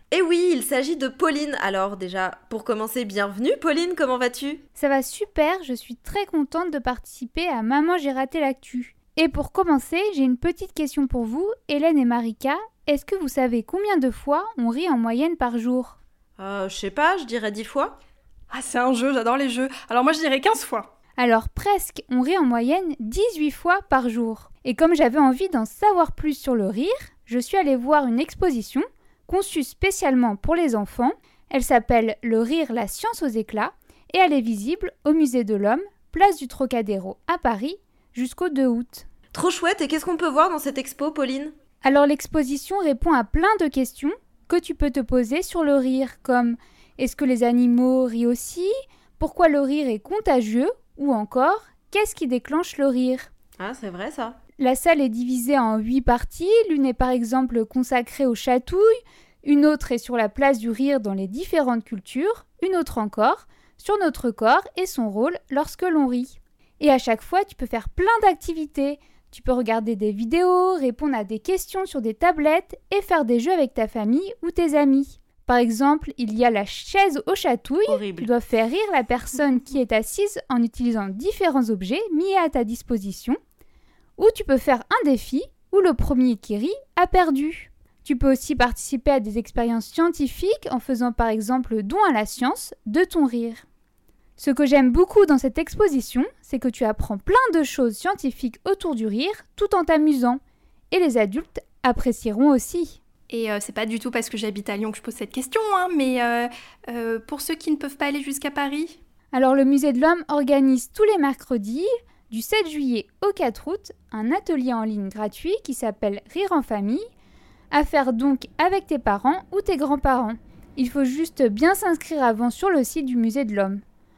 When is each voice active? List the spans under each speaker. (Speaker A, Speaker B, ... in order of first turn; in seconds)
Speaker A: 0.1-4.6, 16.4-18.0, 39.3-41.5, 53.6-54.4, 77.9-78.3
Speaker B: 4.8-16.0, 21.2-39.1, 41.8-53.3, 54.6-58.9, 59.4-83.4, 84.2-93.6, 94.4-103.0, 109.3-117.0, 117.7-123.8
Speaker C: 18.5-20.9, 103.3-109.0